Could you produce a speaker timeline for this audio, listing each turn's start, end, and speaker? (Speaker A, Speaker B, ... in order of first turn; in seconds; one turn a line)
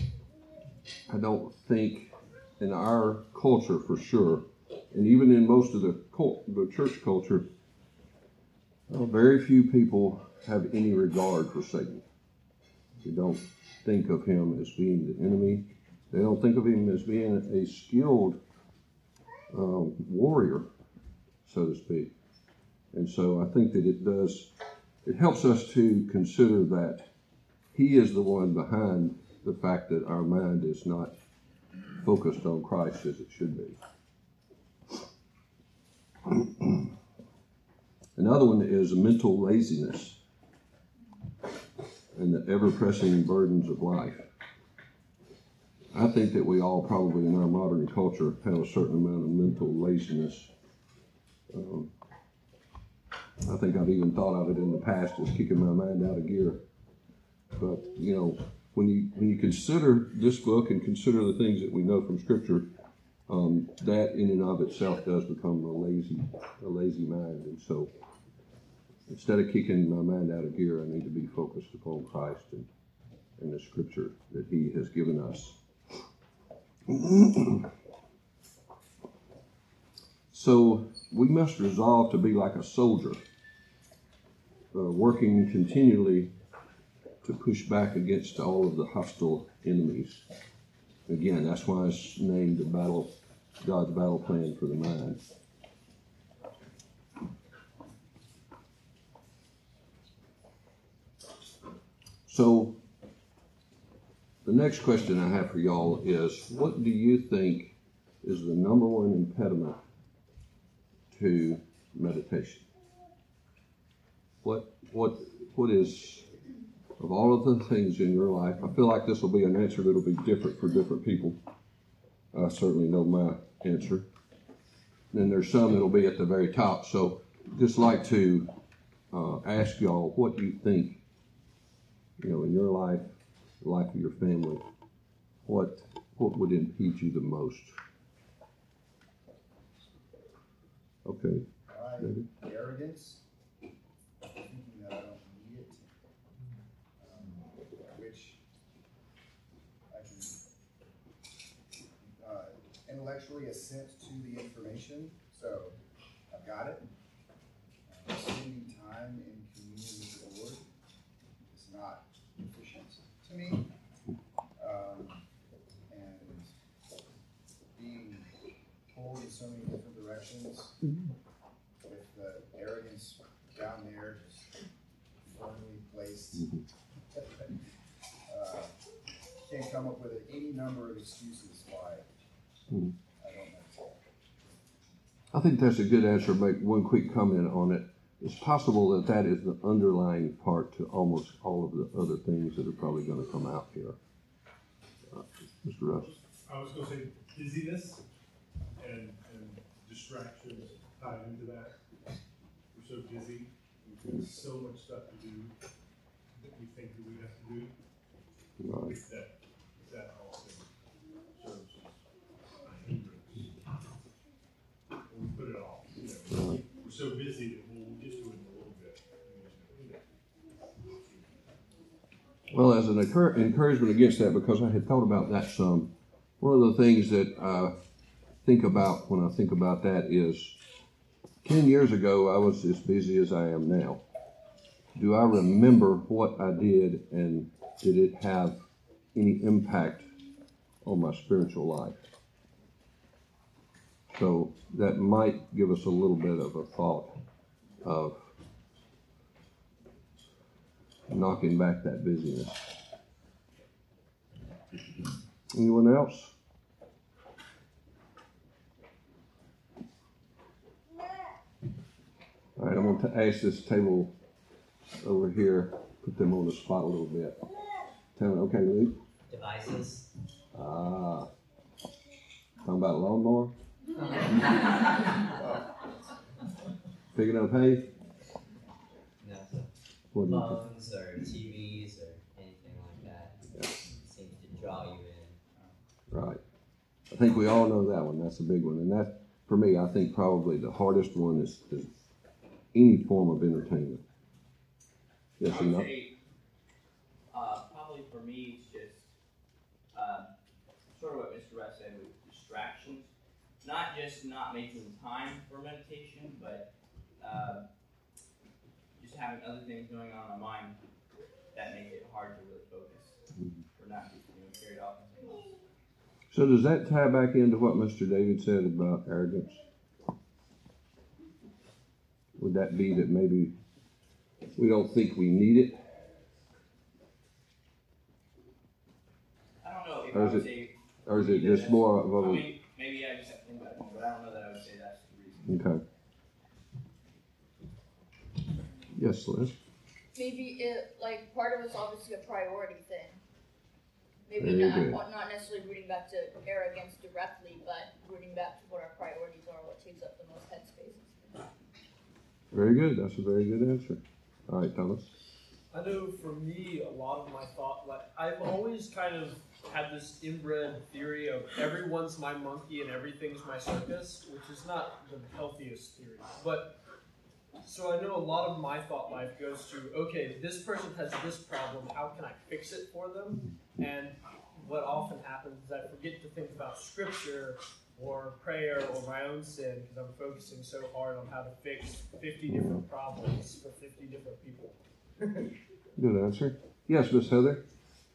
Speaker A: 1.1-7.5
Speaker A: 8.9-12.0
Speaker A: 13.0-18.4
Speaker A: 19.5-20.7
Speaker A: 21.4-22.1
Speaker A: 22.9-24.5
Speaker A: 25.0-27.1
Speaker A: 27.7-31.1
Speaker A: 32.0-33.8
Speaker A: 36.3-36.8
Speaker A: 38.1-40.2
Speaker A: 42.1-44.3
Speaker A: 45.9-50.5
Speaker A: 51.5-51.9
Speaker A: 53.4-56.6
Speaker A: 57.6-62.7
Speaker A: 63.3-67.9
Speaker A: 69.1-72.7
Speaker A: 73.4-75.6
Speaker A: 76.9-77.7
Speaker A: 80.3-83.2
Speaker A: 84.7-86.3
Speaker A: 87.2-90.2
Speaker A: 91.1-95.2
Speaker A: 102.2-102.8
Speaker A: 104.4-109.8
Speaker A: 111.1-112.7
Speaker A: 114.4-116.3
Speaker A: 117.0-121.4
Speaker A: 122.3-124.1
Speaker A: 125.1-128.5
Speaker A: 129.1-131.0
Speaker A: 132.2-134.6
Speaker A: 135.4-137.8
Speaker A: 141.0-141.5
Speaker B: 141.7-143.2
Speaker A: 142.0-142.3
Speaker B: 144.3-145.8
Speaker B: 147.0-148.4
Speaker B: 149.9-150.4
Speaker B: 152.0-155.8
Speaker B: 156.3-156.9
Speaker B: 157.9-160.6
Speaker B: 161.5-163.7
Speaker B: 164.6-165.2
Speaker B: 165.9-166.5
Speaker B: 167.7-168.3
Speaker B: 168.9-170.8
Speaker B: 171.8-174.6
Speaker B: 175.2-176.5
Speaker A: 176.4-176.6
Speaker B: 177.1-177.6
Speaker B: 178.3-178.7
Speaker B: 179.4-182.1
Speaker B: 183.2-184.0
Speaker A: 185.3-194.0
Speaker A: 195.1-196.1
Speaker C: 196.0-198.0
Speaker C: 198.8-201.7
Speaker C: 202.7-205.5
Speaker C: 206.4-207.7
Speaker A: 208.6-209.0
Speaker C: 208.8-210.7
Speaker C: 211.3-212.0
Speaker C: 212.6-213.6
Speaker C: 215.1-220.0
Speaker A: 216.3-216.6
Speaker C: 220.9-221.4
Speaker A: 222.5-227.8
Speaker A: 228.4-230.6
Speaker A: 231.4-234.0
Speaker A: 234.9-238.6
Speaker A: 239.1-240.1
Speaker A: 240.8-242.0
Speaker A: 244.1-247.2
Speaker A: 247.8-248.3
Speaker A: 251.1-252.8
Speaker A: 255.5-256.3
Speaker A: 262.6-264.1
Speaker A: 265.0-267.4
Speaker A: 268.1-269.0
Speaker D: 269.3-270.1
Speaker A: 270.5-271.3
Speaker A: 272.6-273.5
Speaker A: 277.1-277.9
Speaker D: 279.2-279.7
Speaker A: 280.1-280.5
Speaker D: 280.2-285.4
Speaker A: 286.1-286.4
Speaker A: 287.1-291.9
Speaker A: 292.7-294.0
Speaker A: 295.4-295.9
Speaker E: 295.4-296.1
Speaker E: 297.3-299.1
Speaker E: 299.9-300.3
Speaker E: 300.9-306.7
Speaker E: 307.2-307.6
Speaker E: 309.0-310.8
Speaker E: 311.5-313.2
Speaker E: 313.8-315.5
Speaker A: 316.3-319.6
Speaker A: 322.4-323.5
Speaker A: 324.6-325.8
Speaker E: 329.6-335.5
Speaker A: 330.1-330.5
Speaker A: 331.1-332.5
Speaker A: 335.5-335.8
Speaker A: 338.9-339.5
Speaker F: 340.1-343.2
Speaker F: 344.3-351.5
Speaker A: 344.4-345.0
Speaker A: 352.5-355.1
Speaker G: 355.7-366.7
Speaker G: 367.6-384.8
Speaker A: 382.5-382.8
Speaker A: 386.0-387.6